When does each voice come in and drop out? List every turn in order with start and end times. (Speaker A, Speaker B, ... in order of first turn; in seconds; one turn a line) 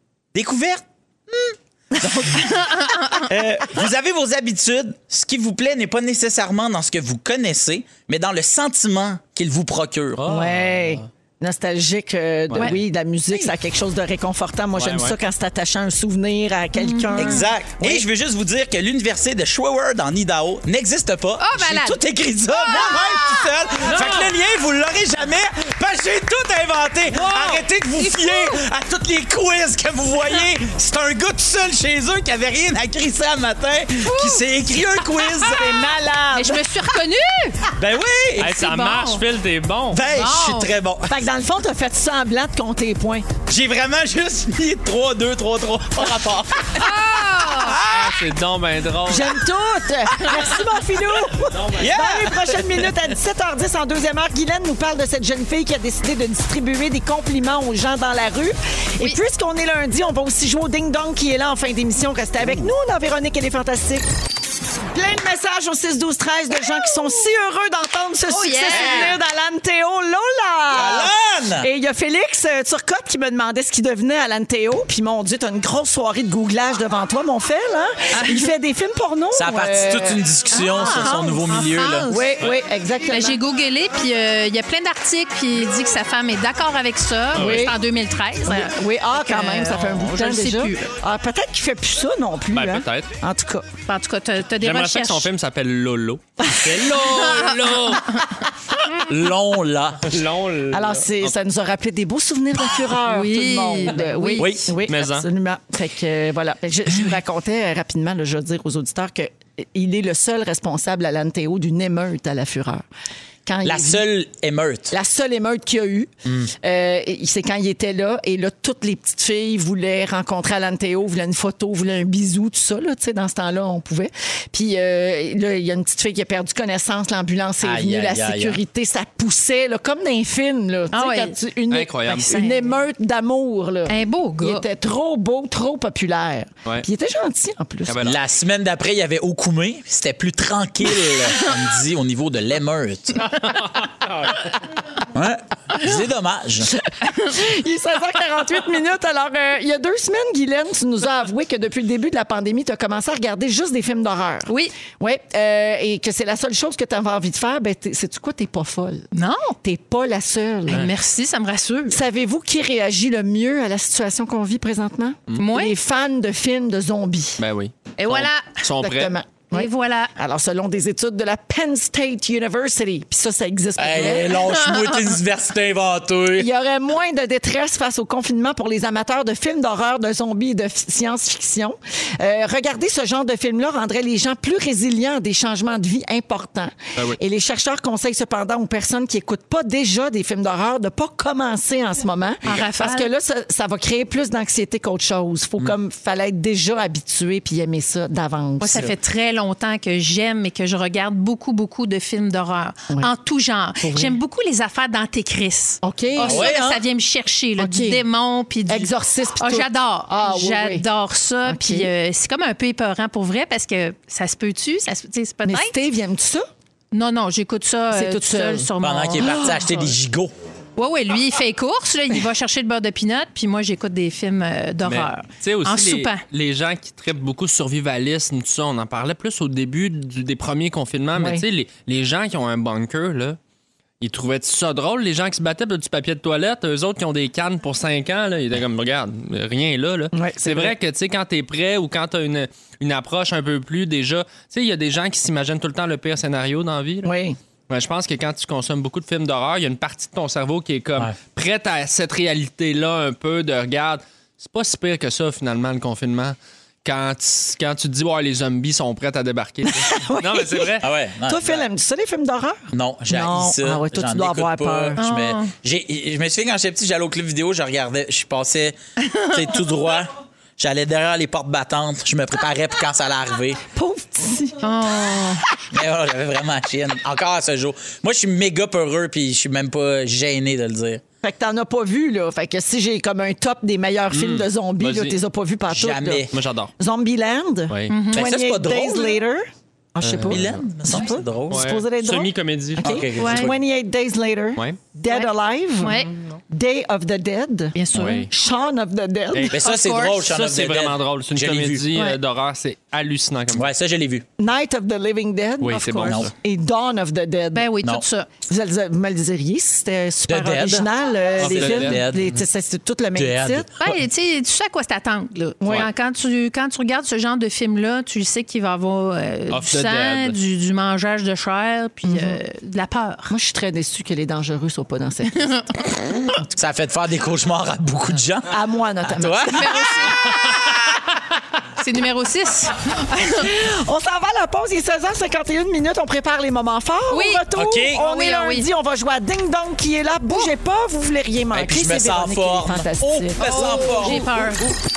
Speaker A: 0.3-2.6
Speaker B: 1.9-2.5
Speaker C: 2.7-3.2
Speaker A: 3.1-10.2
Speaker D: 10.2-11.0
Speaker B: 10.3-18.0
Speaker D: 12.5-12.8
Speaker D: 14.8-15.2
Speaker C: 16.8-17.5
Speaker A: 17.2-36.0
Speaker C: 21.4-22.0
Speaker C: 22.5-24.2
Speaker D: 23.9-24.2
Speaker C: 27.1-28.6
Speaker C: 34.0-34.4
Speaker B: 35.4-36.6
Speaker C: 36.3-37.6
Speaker A: 37.7-38.6
Speaker D: 38.4-40.0
Speaker C: 38.4-39.2
Speaker A: 39.9-41.2
Speaker C: 40.1-40.7
Speaker B: 41.1-43.3
Speaker A: 43.5-48.2
Speaker C: 46.7-47.8
Speaker D: 47.9-49.4
Speaker B: 49.0-64.0
Speaker D: 51.5-51.9
Speaker A: 51.7-52.8
Speaker B: 64.9-80.2
Speaker C: 68.3-69.2
Speaker A: 68.7-69.1
Speaker A: 70.7-71.7
Speaker A: 79.3-82.1
Speaker C: 80.5-82.3
Speaker B: 82.1-83.4
Speaker C: 83.1-90.9
Speaker D: 87.3-87.7
Speaker B: 87.3-87.8
Speaker B: 88.4-93.7
Speaker D: 92.5-93.1
Speaker C: 93.9-95.3
Speaker D: 94.6-98.2
Speaker C: 97.3-98.2
Speaker A: 99.0-100.1
Speaker D: 100.1-101.3
Speaker B: 100.7-112.8
Speaker C: 103.0-104.5
Speaker A: 104.4-104.7
Speaker D: 104.4-105.3
Speaker B: 113.5-114.0
Speaker A: 113.6-114.9
Speaker B: 114.9-138.0
Speaker A: 116.2-116.5
Speaker A: 127.6-128.6
Speaker C: 130.9-131.3
Speaker D: 131.7-132.3
Speaker C: 132.1-132.8
Speaker C: 133.9-134.6
Speaker D: 137.8-138.2
Speaker A: 138.0-143.3
Speaker D: 143.4-144.5
Speaker A: 145.1-146.7
Speaker B: 147.0-159.1
Speaker C: 154.5-154.7
Speaker C: 159.1-159.6
Speaker B: 159.6-160.9
Speaker C: 160.7-162.0
Speaker B: 161.9-167.4
Speaker C: 165.4-165.7
Speaker D: 167.4-169.1
Speaker C: 168.0-168.5
Speaker B: 168.8-174.3
Speaker C: 169.5-170.1
Speaker A: 173.8-176.5
Speaker C: 173.9-175.1
Speaker B: 176.4-198.9
Speaker C: 192.4-193.1
Speaker C: 198.6-215.7
Speaker B: 203.8-204.2
Speaker B: 205.8-206.5
Speaker A: 206.2-206.8
Speaker B: 207.6-208.0
Speaker B: 208.7-210.8
Speaker B: 211.4-211.9
Speaker B: 215.4-216.4
Speaker C: 216.9-219.8
Speaker B: 217.9-218.7
Speaker A: 218.8-220.3
Speaker C: 220.8-226.2
Speaker D: 224.8-233.4
Speaker B: 231.1-231.4
Speaker D: 234.0-247.1
Speaker B: 240.1-240.7
Speaker B: 247.0-247.4
Speaker D: 247.7-260.9
Speaker B: 259.6-260.7
Speaker A: 260.8-261.6
Speaker B: 261.2-265.0
Speaker A: 262.7-268.8
Speaker C: 265.0-265.5
Speaker C: 269.1-269.3
Speaker A: 269.3-273.6
Speaker B: 273.7-275.3
Speaker C: 274.6-275.4
Speaker A: 275.7-281.0
Speaker B: 281.2-286.2
Speaker D: 284.1-285.2
Speaker A: 285.7-286.3
Speaker D: 286.3-286.7
Speaker B: 286.8-297.7
Speaker D: 287.7-287.9
Speaker C: 287.9-288.2
Speaker A: 288.1-289.2
Speaker D: 290.0-290.5
Speaker A: 290.3-291.7
Speaker D: 291.5-293.1
Speaker A: 292.8-293.6
Speaker C: 293.2-293.5
Speaker C: 295.1-296.1
Speaker C: 297.7-298.2
Speaker D: 297.9-298.3
Speaker B: 298.3-299.6
Speaker D: 299.3-299.6
Speaker A: 299.5-301.9
Speaker C: 299.6-300.2
Speaker D: 300.3-303.7
Speaker A: 303.5-304.2
Speaker B: 304.4-307.7
Speaker D: 305.6-306.3
Speaker C: 305.7-306.0
Speaker A: 306.0-306.3
Speaker C: 307.5-308.3
Speaker B: 308.4-313.7
Speaker A: 310.3-312.3
Speaker D: 311.4-312.0
Speaker A: 313.1-313.9
Speaker C: 313.8-323.3
Speaker B: 315.6-315.9
Speaker D: 319.5-320.4
Speaker B: 322.0-322.4
Speaker B: 323.3-325.9
Speaker A: 326.4-330.6
Speaker B: 328.5-329.9
Speaker C: 329.5-330.6
Speaker C: 331.8-333.5
Speaker B: 333.4-344.2
Speaker C: 337.1-338.7
Speaker A: 337.5-338.0
Speaker A: 341.5-344.4
Speaker C: 343.4-344.7